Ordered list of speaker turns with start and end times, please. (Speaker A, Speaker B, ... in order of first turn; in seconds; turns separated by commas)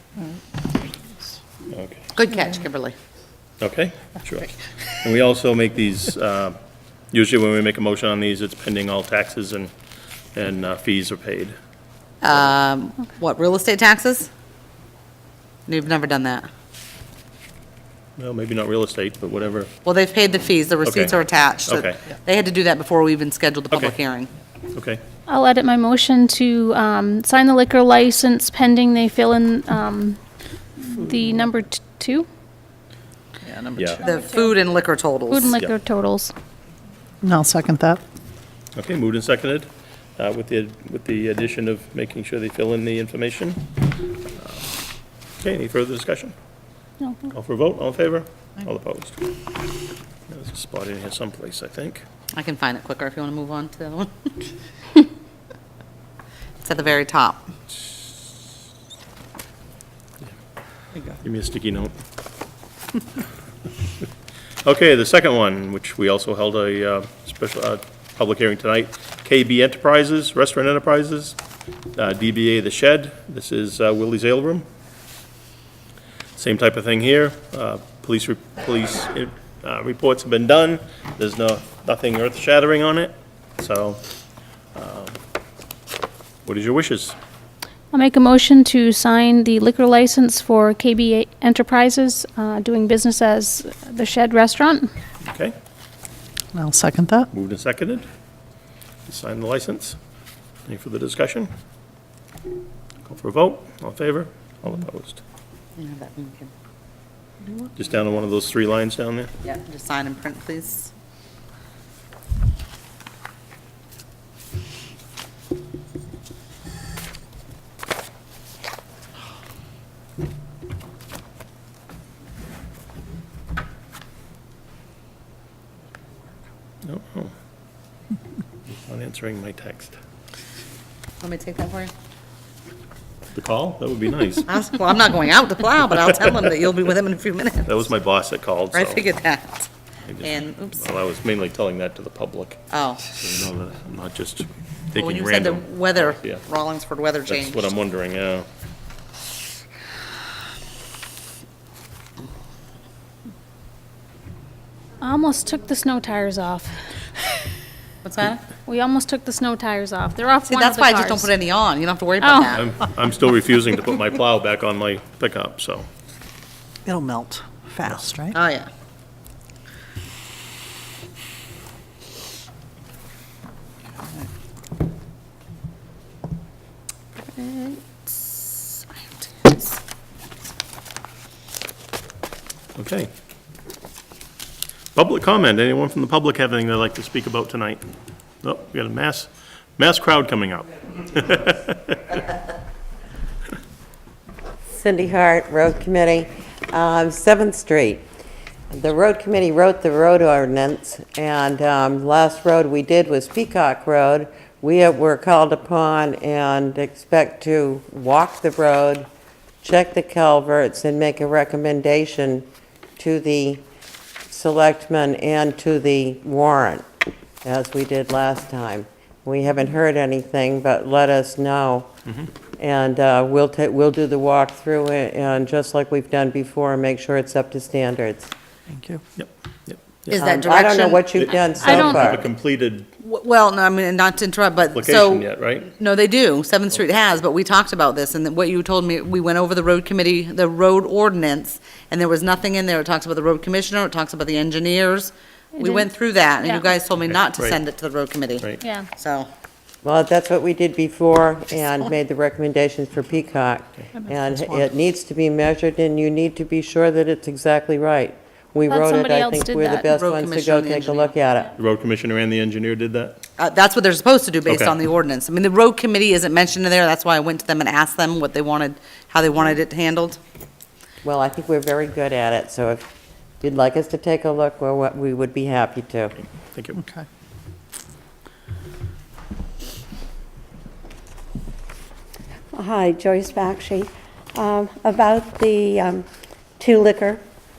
Speaker A: 1.7-2.0, Speaker B: 2.1-3.0, Speaker A: 3.6-6.6, Speaker A: 7.1-9.7, Speaker A: 10.3-11.6, Speaker B: 12.2-14.3, Speaker B: 15.7-16.5, Speaker A: 18.2-19.7, Speaker B: 19.8-24.3, Speaker A: 20.8-21.1, Speaker A: 21.7-22.0, Speaker A: 23.7-24.0, Speaker A: 24.7-25.0, Speaker C: 25.3-30.2, Speaker C: 30.8-32.3, Speaker D: 33.5-34.0, Speaker A: 33.8-34.0, Speaker B: 34.0-35.5, Speaker C: 34.1-34.5, Speaker C: 35.3-36.3, Speaker D: 37.2-38.0, Speaker A: 38.8-43.7, Speaker A: 44.3-44.7, Speaker A: 45.4-46.3, Speaker C: 47.0-47.3, Speaker A: 47.3-49.2, Speaker A: 50.3-52.0, Speaker B: 52.4-54.3, Speaker B: 56.6-57.5, Speaker A: 61.2-61.9, Speaker A: 64.6-71.4, Speaker A: 72.0-74.7, Speaker A: 76.4-84.0, Speaker A: 84.8-85.2, Speaker A: 86.5-87.2, Speaker C: 87.9-94.9, Speaker A: 95.2-95.5, Speaker D: 96.5-97.3, Speaker A: 97.3-98.1, Speaker A: 99.1-100.0, Speaker A: 100.7-101.5, Speaker A: 103.0-105.2, Speaker B: 105.8-106.5, Speaker A: 107.8-109.3, Speaker B: 109.4-110.9, Speaker A: 126.8-127.3, Speaker A: 128.9-130.0, Speaker B: 131.2-131.9, Speaker A: 133.3-134.5, Speaker B: 134.5-137.8, Speaker A: 137.7-139.0, Speaker B: 138.7-139.7, Speaker A: 140.1-142.6, Speaker B: 140.2-140.8, Speaker B: 142.7-143.1, Speaker A: 143.1-146.4, Speaker B: 145.0-147.7, Speaker A: 147.3-148.5, Speaker C: 155.0-156.7, Speaker B: 158.0-158.4, Speaker C: 158.7-161.3, Speaker B: 160.4-162.7, Speaker C: 162.2-162.5, Speaker A: 162.5-165.9, Speaker D: 166.8-168.4, Speaker B: 168.3-168.7, Speaker B: 177.5-178.1, Speaker A: 182.8-183.1, Speaker A: 184.9-187.9, Speaker A: 188.4-192.2, Speaker E: 194.7-198.1, Speaker E: 198.7-209.1, Speaker E: 209.6-212.4, Speaker E: 213.0-213.6, Speaker E: 214.3-216.8, Speaker E: 217.4-221.9, Speaker E: 222.6-228.3, Speaker D: 228.7-229.0, Speaker A: 229.2-230.2, Speaker B: 230.1-231.4, Speaker E: 230.1-232.2, Speaker A: 231.2-232.9, Speaker C: 231.6-232.1, Speaker B: 233.0-249.3, Speaker A: 234.8-235.7, Speaker C: 245.6-245.9, Speaker C: 246.4-246.7, Speaker A: 247.1-247.6, Speaker C: 248.6-248.9, Speaker E: 249.8-261.5, Speaker C: 258.7-259.9, Speaker B: 259.9-261.1, Speaker A: 261.6-263.2, Speaker B: 263.4-270.2, Speaker A: 264.5-264.8, Speaker E: 271.0-272.8, Speaker E: 273.4-276.2, Speaker A: 276.5-276.8, Speaker D: 276.8-277.0, Speaker F: 282.5-286.1, Speaker F: 286.6-287.2